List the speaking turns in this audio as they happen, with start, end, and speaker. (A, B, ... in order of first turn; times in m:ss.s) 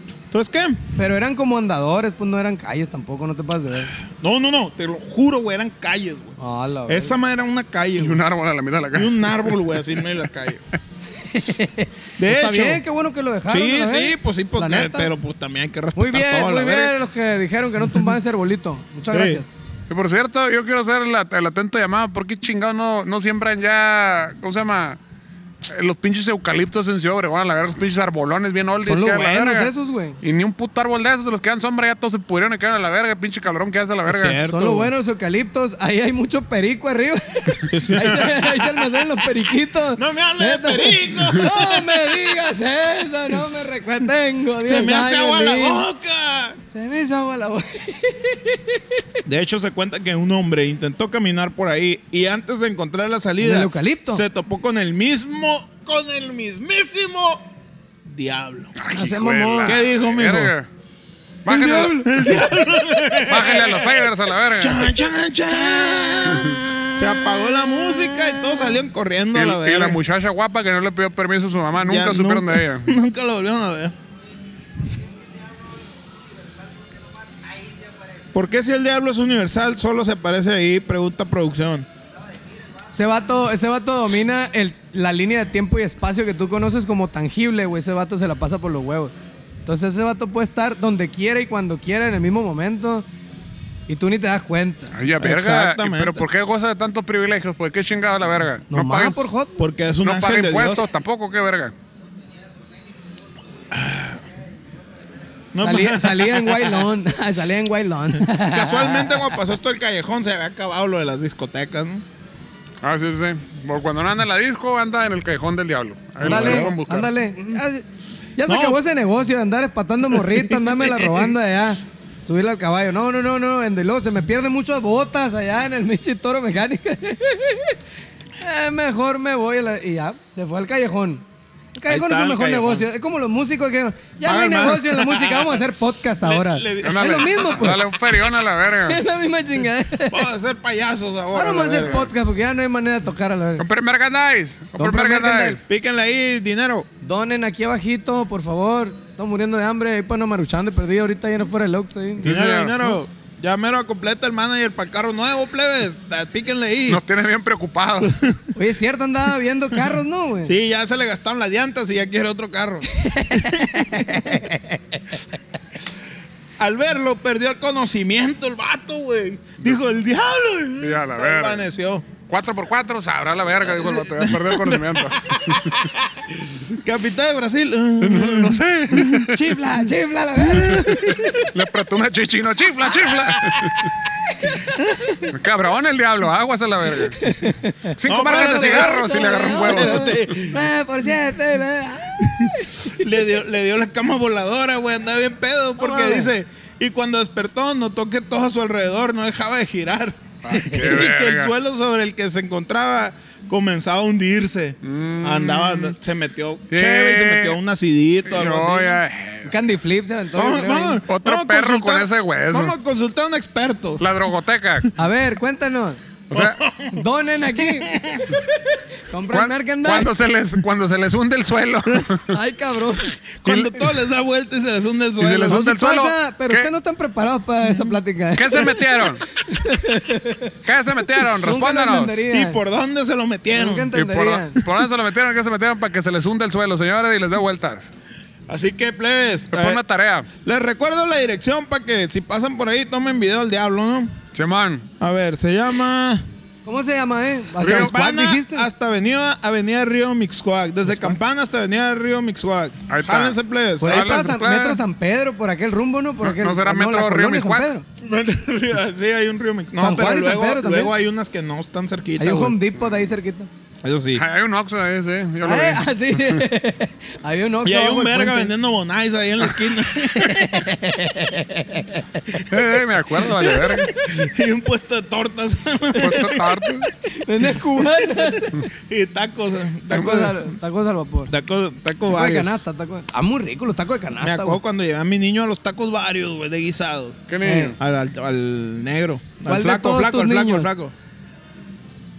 0:00.3-0:00.8 A
0:01.0-0:03.9 B
0:04.0-0:06.4 A
0:06.4-0:07.2 B
0:06.9-0:08.2 A
0:08.0-0:09.6 C
0:08.9-0:10.6 A
0:11.2-0:15.1 B
0:12.2-0:12.8 A
0:13.5-0:16.9 A
0:16.0-0:19.6 B
0:19.1-0:19.4 A
0:19.9-0:25.0 C
0:25.6-0:34.4 C
0:28.8-0:30.2 B
0:34.1-0:34.9 A
0:34.5-0:45.8 B
0:37.7-0:39.3 A
0:39.9-0:42.2 A
0:44.6-0:46.6 A
0:46.7-0:49.0 B
0:49.2-0:57.4 A
0:53.4-0:54.2 B
0:58.0-0:58.7 A
0:58.8-1:00.7 C
0:58.9-0:59.8 B
0:59.6-1:00.5 A
1:01.4-1:02.4 C
1:01.5-1:10.0 A
1:01.5-1:02.0 B
1:03.2-1:04.9 C
1:06.3-1:06.6 C
1:07.2-1:08.6 B
1:09.3-1:12.9 C
1:11.8-1:13.9 A
1:18.3-1:21.9 A
1:22.9-1:29.1 B
1:29.6-1:33.1 B
1:33.9-1:34.9 B
1:34.9-1:39.2 C
1:35.2-1:36.2 A
1:38.7-1:39.6 B
1:39.6-1:40.8 A
1:40.0-1:41.7 C
1:43.7-1:44.2 A
1:45.5-1:46.9 A
1:45.6-1:49.4 B
1:48.2-1:52.0 A
1:52.8-1:57.1 C
1:56.2-1:56.7 A
1:56.2-1:57.8 B
1:58.4-2:07.8 B
1:58.5-1:58.8 A
2:00.2-2:01.2 A
2:08.4-2:11.2 B
2:11.7-2:18.0 B
2:11.9-2:12.9 A
2:14.2-2:17.7 A
2:16.8-2:19.0 C
2:18.8-2:20.3 B
2:20.1-2:22.1 A
2:21.3-2:23.6 B
2:23.6-2:25.6 C
2:24.8-2:25.6 B
2:25.7-2:26.9 A
2:27.0-2:32.3 B
2:32.2-2:33.0 C
2:32.2-2:37.0 A
2:36.9-2:38.3 C
2:38.1-2:38.3 A
2:38.5-2:40.5 B
2:40.4-2:44.8 A
2:42.9-2:44.4 B
2:46.6-2:52.1 A
2:50.8-2:51.6 C
2:52.3-2:55.8 C
2:53.6-2:59.3 A
2:58.0-2:59.5 C
2:59.3-3:01.4 B
3:00.4-3:01.5 A
3:01.3-3:03.9 C
3:03.1-3:03.9 A
3:04.7-3:05.3 A
3:05.2-3:07.2 C
3:07.1-3:13.0 B
3:07.9-3:10.2 C
3:08.0-3:10.6 A
3:12.4-3:29.0 A
3:15.8-3:16.3 B
3:20.4-3:21.0 B
3:20.6-3:21.5 C
3:24.8-3:26.0 C
3:26.7-3:27.6 C
3:28.2-3:29.6 C
3:29.5-3:31.0 B
3:30.3-3:34.0 A
3:31.1-3:32.7 C
3:34.0-3:34.9 C
3:35.0-3:36.0 B
3:36.3-3:36.6 C
3:36.3-3:37.0 A
3:36.9-3:38.0 B
3:37.6-3:38.4 A
3:39.1-3:40.2 B
3:39.3-3:42.4 C
3:42.3-3:43.2 B
3:43.4-3:45.7 A
3:43.4-3:43.7 C
3:45.2-3:46.7 C
3:45.5-3:52.6 B
3:48.3-3:49.2 C
3:50.6-3:52.2 C
3:52.3-3:53.9 A
3:53.5-3:54.7 B
3:53.9-3:57.9 C
3:58.5-3:59.8 A
3:59.5-4:00.3 C
4:00.4-4:04.2 A
4:04.3-4:04.9 C
4:05.0-4:06.2 A
4:06.6-4:08.7 B
4:07.6-4:07.9 C
4:07.6-4:14.2 A
4:12.9-4:14.8 C
4:13.8-4:17.8 B
4:16.2-4:17.7 C
4:18.0-4:22.6 A
4:19.8-4:20.9 B
4:22.2-4:23.5 B
4:23.8-4:24.2 A
4:24.1-4:26.4 C
4:25.4-4:28.5 B
4:27.6-4:30.8 A
4:30.2-4:32.3 B
4:32.4-4:34.0 C
4:33.4-4:36.8 A
4:36.0-4:36.9 C
4:37.0-4:38.7 B
4:37.7-4:40.3 A
4:39.9-4:41.3 B
4:40.0-4:40.3 C
4:41.3-4:42.6 A
4:42.0-4:44.6 B
4:44.2-4:47.2 A
4:47.3-4:47.8 C
4:47.4-4:47.8 B
4:47.8-4:50.9 A
4:49.4-4:50.7 B